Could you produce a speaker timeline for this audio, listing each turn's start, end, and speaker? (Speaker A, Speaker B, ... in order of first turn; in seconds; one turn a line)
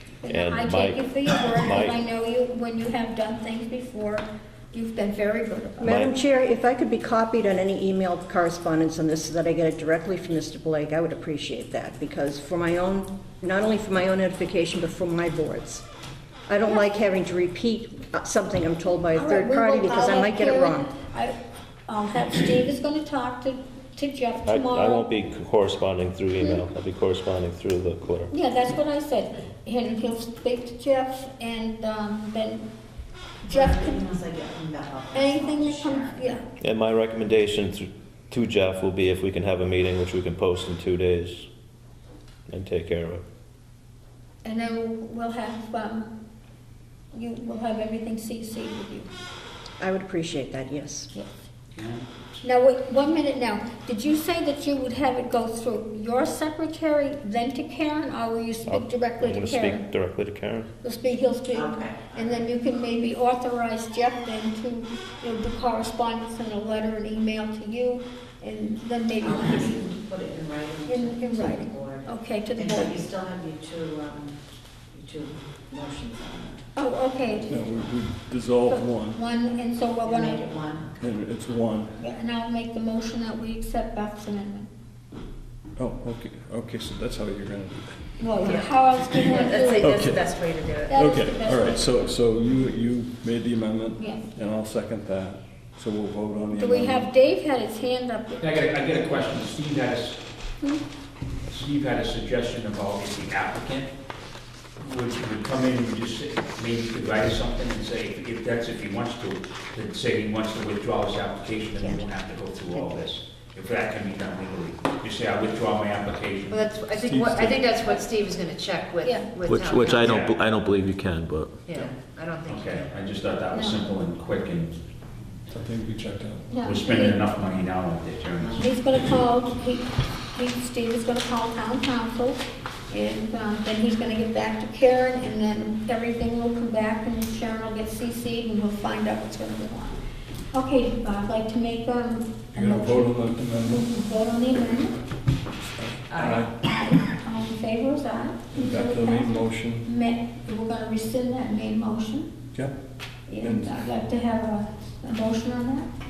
Speaker A: 0.2-5.9
Speaker B: 0.3-1.9
Speaker C: 5.8-15.8
Speaker B: 5.8-6.1
Speaker C: 16.5-20.9
Speaker A: 19.1-25.1
Speaker B: 24.4-28.3
Speaker A: 28.3-32.7
Speaker D: 33.4-36.3
Speaker A: 33.5-34.1
Speaker A: 35.1-36.4
Speaker B: 36.6-41.5
Speaker B: 42.5-43.2
Speaker A: 44.4-46.1
Speaker A: 47.1-49.1
Speaker C: 49.8-51.1
Speaker E: 51.7-52.4
Speaker A: 52.4-59.8
Speaker B: 58.6-60.7
Speaker A: 60.8-69.9
Speaker D: 61.5-62.4
Speaker D: 69.2-74.3
Speaker A: 70.8-73.1
Speaker D: 74.9-76.6
Speaker A: 76.8-77.7
Speaker F: 77.5-79.2
Speaker A: 78.7-80.7
Speaker D: 80.0-80.9
Speaker F: 81.0-81.9
Speaker A: 82.0-84.7
Speaker F: 85.8-88.1
Speaker A: 88.2-90.0
Speaker G: 88.4-91.0
Speaker F: 89.8-90.2
Speaker A: 90.9-92.0
Speaker F: 90.9-97.1
Speaker A: 94.0-94.3
Speaker A: 96.5-98.5
Speaker E: 98.4-100.2
Speaker E: 101.5-103.9
Speaker E: 104.8-116.7
Speaker G: 116.5-120.2
Speaker F: 116.9-117.6
Speaker A: 119.0-119.3
Speaker B: 119.5-121.6
Speaker E: 119.9-120.4
Speaker G: 121.7-122.9
Speaker E: 122.5-124.7
Speaker A: 123.5-123.8
Speaker F: 125.5-126.5
Speaker A: 126.5-127.2
Speaker E: 126.6-128.7
Speaker A: 128.4-140.0
Speaker A: 140.5-143.1
Speaker F: 142.5-143.9
Speaker A: 143.6-145.0
Speaker F: 145.6-146.5
Speaker G: 146.1-146.4
Speaker A: 146.2-152.3
Speaker F: 148.5-149.9
Speaker A: 153.3-155.9
Speaker F: 153.4-153.7